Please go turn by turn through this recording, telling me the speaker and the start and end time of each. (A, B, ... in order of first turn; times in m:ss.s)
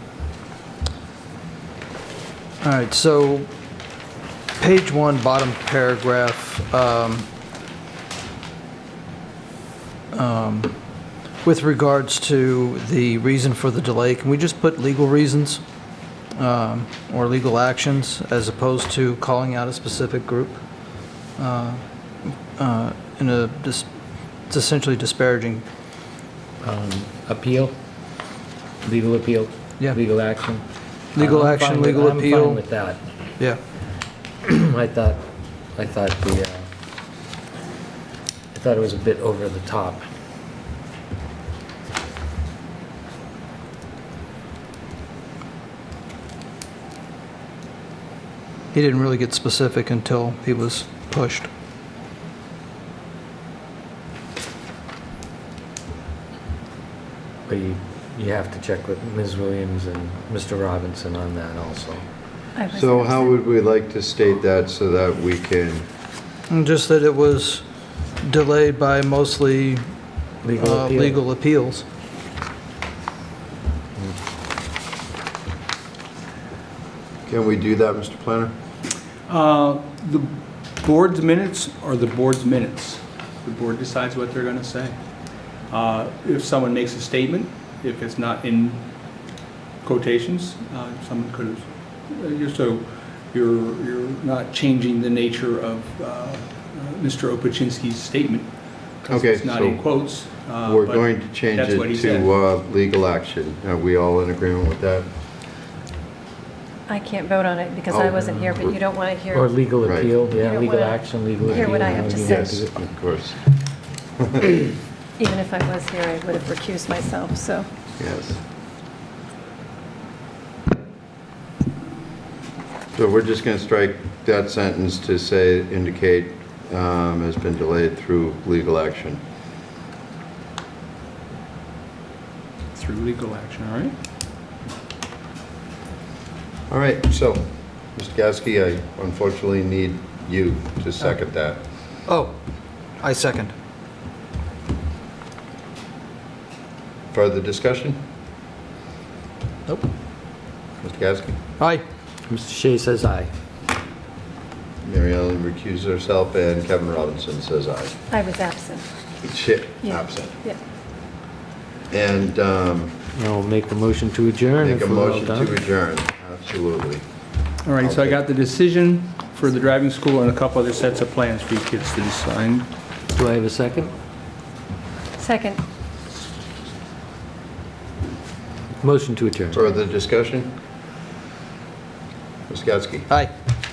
0:02.6-0:03.5 A
0:04.6-0:07.3 A
0:10.1-0:10.8 A
0:11.4-0:15.6 A
0:16.3-0:20.6 A
0:21.4-0:21.8 A
0:22.6-0:23.8 A
0:24.5-0:25.6 A
0:26.6-0:27.7 B
0:28.8-0:30.6 B
0:31.2-0:32.6 A
0:31.2-0:33.0 B
0:34.4-0:35.2 B
0:35.7-0:36.6 B
0:38.5-0:40.0 B
0:48.7-0:51.5 A
0:57.5-1:02.0 B
1:02.5-1:03.4 C
1:02.7-1:05.8 D
1:06.5-1:07.6 A
1:08.2-1:09.8 A
1:10.4-1:11.2 B
1:10.5-1:11.8 A
1:17.3-1:18.5 D
1:19.3-1:25.0 E
1:25.7-1:28.8 E
1:29.8-1:38.5 E
1:39.0-1:42.3 E
1:39.1-1:39.8 D
1:40.6-1:45.1 D
1:46.9-1:49.5 C
1:47.9-1:48.8 D
1:49.3-1:52.7 B
1:49.8-1:50.1 D
1:50.3-1:52.6 C
1:51.4-1:53.6 D
1:54.2-1:54.6 D
1:55.2-1:57.6 C
1:58.0-1:58.4 D
2:02.9-2:09.2 D
2:12.7-2:13.9 E
2:16.7-2:21.6 D
2:22.1-2:22.4 A
2:23.0-2:23.5 A
2:27.1-2:28.0 D
2:30.8-2:31.4 D
2:32.3-2:33.3 B
2:34.8-2:38.0 D
2:38.1-2:38.8 C
2:39.2-2:40.4 D
2:39.8-2:40.6 C
2:41.9-2:43.0 D
2:43.1-2:45.5 B
2:44.6-2:47.0 D
2:47.6-2:52.7 E
2:47.8-2:48.2 D
2:53.1-2:53.9 B
2:55.2-2:55.6 C
2:58.8-2:59.6 B
2:59.5-3:00.5 D
3:02.5-3:03.1 D